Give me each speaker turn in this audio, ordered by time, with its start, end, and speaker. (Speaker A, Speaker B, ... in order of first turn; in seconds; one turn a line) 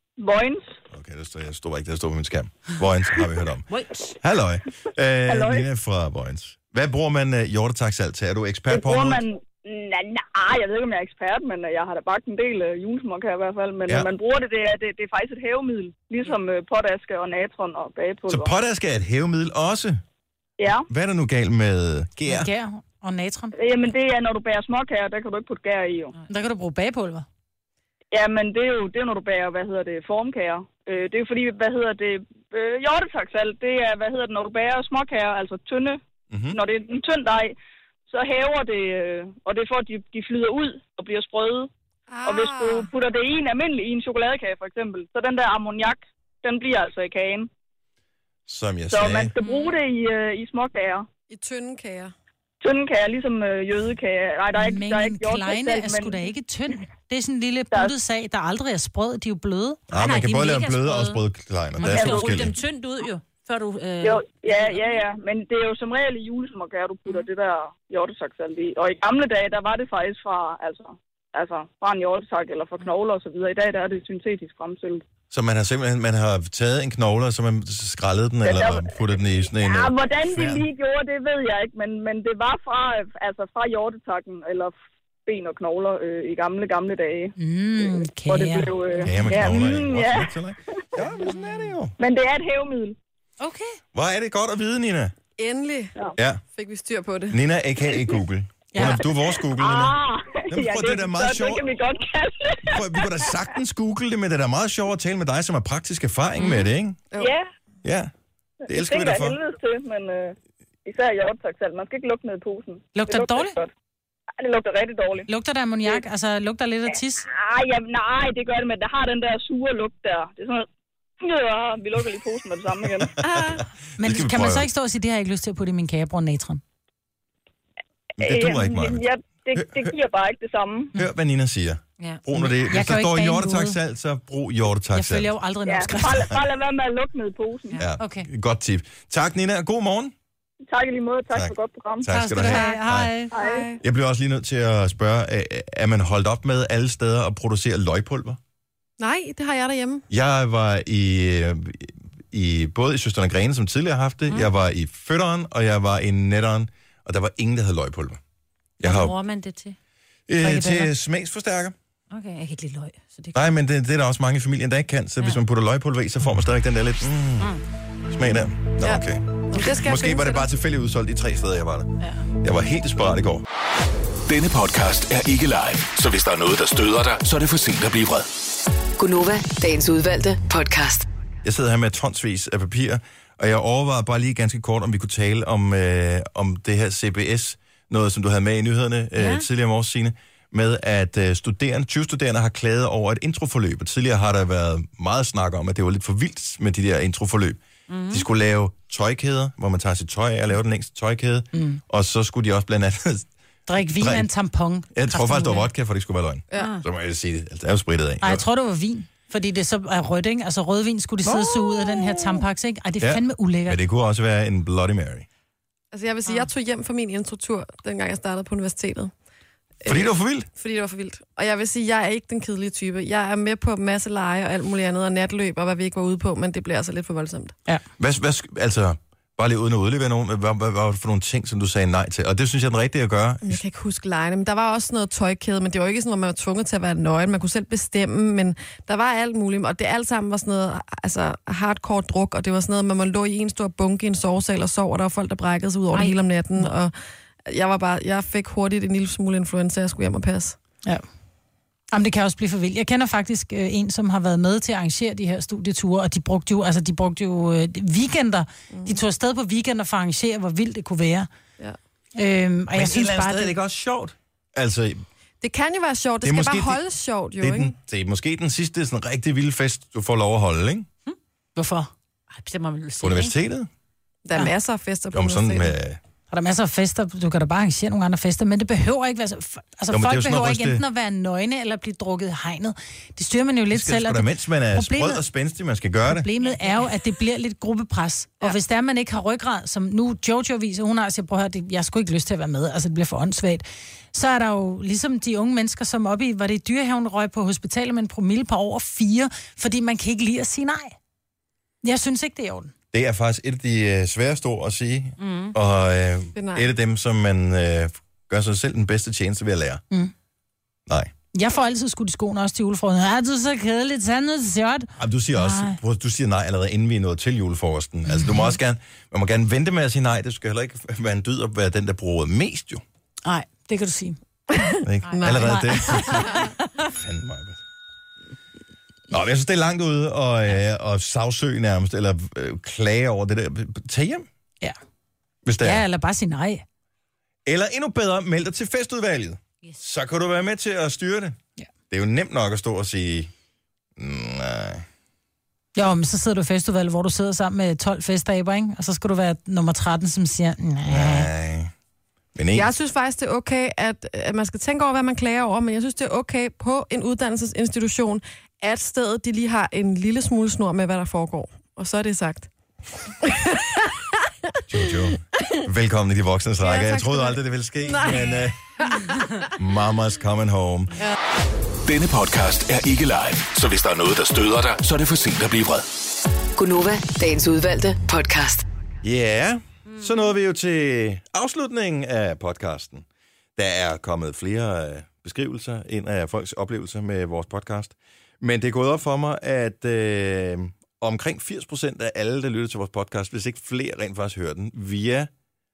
Speaker A: 0.2-0.7
Speaker B: 0.9-3.7
Speaker C: 3.7-4.2
Speaker B: 4.2-9.2
Speaker A: 5.2-5.7
Speaker A: 8.7-18.5
Speaker B: 18.3-20.0
Speaker A: 20.6-20.9
Speaker B: 20.9-22.5
Speaker D: 22.3-23.5
Speaker A: 23.6-26.1
Speaker D: 26.3-27.2
Speaker A: 28.1-36.0
Speaker B: 36.3-36.6
Speaker A: 36.5-37.5
Speaker A: 38.1-41.7
Speaker E: 42.1-42.9
Speaker A: 42.2-47.5
Speaker B: 48.5-49.3
Speaker A: 48.9-51.0
Speaker C: 49.4-49.8
Speaker E: 51.3-52.1
Speaker A: 52.6-56.2
Speaker D: 54.5-59.8
Speaker B: 59.9-62.5
Speaker C: 59.9-61.2
Speaker C: 61.8-65.0
Speaker A: 61.9-62.3
Speaker A: 64.0-75.0
Speaker B: 75.3-80.7
Speaker A: 78.4-84.7
Speaker A: 85.2-90.3
Speaker D: 87.4-89.4
Speaker B: 89.0-91.9
Speaker A: 92.0-93.0
Speaker B: 93.9-95.1
Speaker E: 95.4-95.9
Speaker B: 96.2-96.4
Speaker E: 96.5-97.4
Speaker B: 97.3-100.0
Speaker D: 98.7-99.0
Speaker A: 99.3-103.4
Speaker B: 100.5-101.6
Speaker B: 102.7-107.0
Speaker C: 106.4-106.7
Speaker A: 107.2-107.4
Speaker B: 107.8-108.1
Speaker A: 108.6-110.3
Speaker B: 108.7-109.4
Speaker A: 110.8-113.7
Speaker D: 112.9-113.5
Speaker A: 114.4-115.3
Speaker D: 115.3-117.3
Speaker A: 117.2-120.7
Speaker A: 121.2-123.1
Speaker D: 123.2-126.6
Speaker B: 123.3-124.7
Speaker B: 128.2-129.0
Speaker A: 128.2-130.9
Speaker B: 129.5-129.9
Speaker B: 130.9-135.3
Speaker C: 132.0-132.2
Speaker D: 132.3-133.8
Speaker D: 134.9-136.3
Speaker A: 135.7-137.8
Speaker B: 136.1-136.4
Speaker B: 137.8-140.1
Speaker D: 138.0-138.3
Speaker A: 140.7-142.1
Speaker B: 141.3-143.2
Speaker D: 142.1-143.4
Speaker E: 142.4-142.8
Speaker A: 143.3-143.7
Speaker E: 143.3-143.8
Speaker B: 143.8-148.4
Speaker E: 149.0-150.0
Speaker B: 150.1-158.2
Speaker B: 158.8-159.1
Speaker C: 158.8-159.8
Speaker B: 160.3-161.7
Speaker D: 160.4-160.9
Speaker C: 162.1-163.4
Speaker B: 163.3-167.6
Speaker B: 168.1-173.4
Speaker E: 168.8-170.5
Speaker F: 174.3-178.3
Speaker G: 179.0-181.1
Speaker B: 181.4-204.3
Speaker C: 189.2-189.4
Speaker C: 197.9-198.2
Speaker D: 201.5-201.8
Speaker D: 203.7-205.7
Speaker B: 204.9-208.4
Speaker D: 208.2-213.8
Speaker B: 213.0-215.2
Speaker E: 215.9-219.1
Speaker E: 219.8-227.6
Speaker B: 219.8-220.5
Speaker B: 228.0-233.6
Speaker E: 233.4-246.9
Speaker E: 247.5-250.6
Speaker D: 251.9-261.3
Speaker E: 258.7-259.0
Speaker D: 262.1-263.5
Speaker B: 262.7-265.0
Speaker E: 265.4-267.7
Speaker B: 266.2-266.8
Speaker B: 267.4-270.9
Speaker D: 271.6-271.9
Speaker C: 272.3-273.3
Speaker B: 273.0-273.7
Speaker E: 274.2-275.7
Speaker B: 275.1-276.0
Speaker D: 276.3-285.2
Speaker B: 279.9-280.8
Speaker B: 283.7-286.3
Speaker D: 286.1-300.9
Speaker C: 286.4-286.8
Speaker D: 301.8-302.7
Speaker B: 302.9-309.8
Speaker C: 305.2-305.5
Speaker E: 306.3-306.7
Speaker D: 311.3-315.8
Speaker B: 315.0-322.8
Speaker D: 323.2-324.2
Speaker E: 324.5-326.4
Speaker B: 324.8-327.6
Speaker C: 325.1-325.5
Speaker D: 325.4-326.5
Speaker B: 329.1-334.2
Speaker B: 335.4-335.8
Speaker D: 335.6-336.6
Speaker B: 337.4-341.4
Speaker B: 341.9-343.3
Speaker B: 344.0-344.9
Speaker D: 345.8-351.3
Speaker B: 350.9-351.7
Speaker B: 352.3-352.7
Speaker E: 352.5-362.5
Speaker E: 363.2-363.9
Speaker B: 364.7-368.6
Speaker E: 366.6-369.4
Speaker B: 369.6-371.0
Speaker F: 371.9-375.9
Speaker G: 376.6-378.6
Speaker B: 379.0-383.0
Speaker B: 383.6-395.3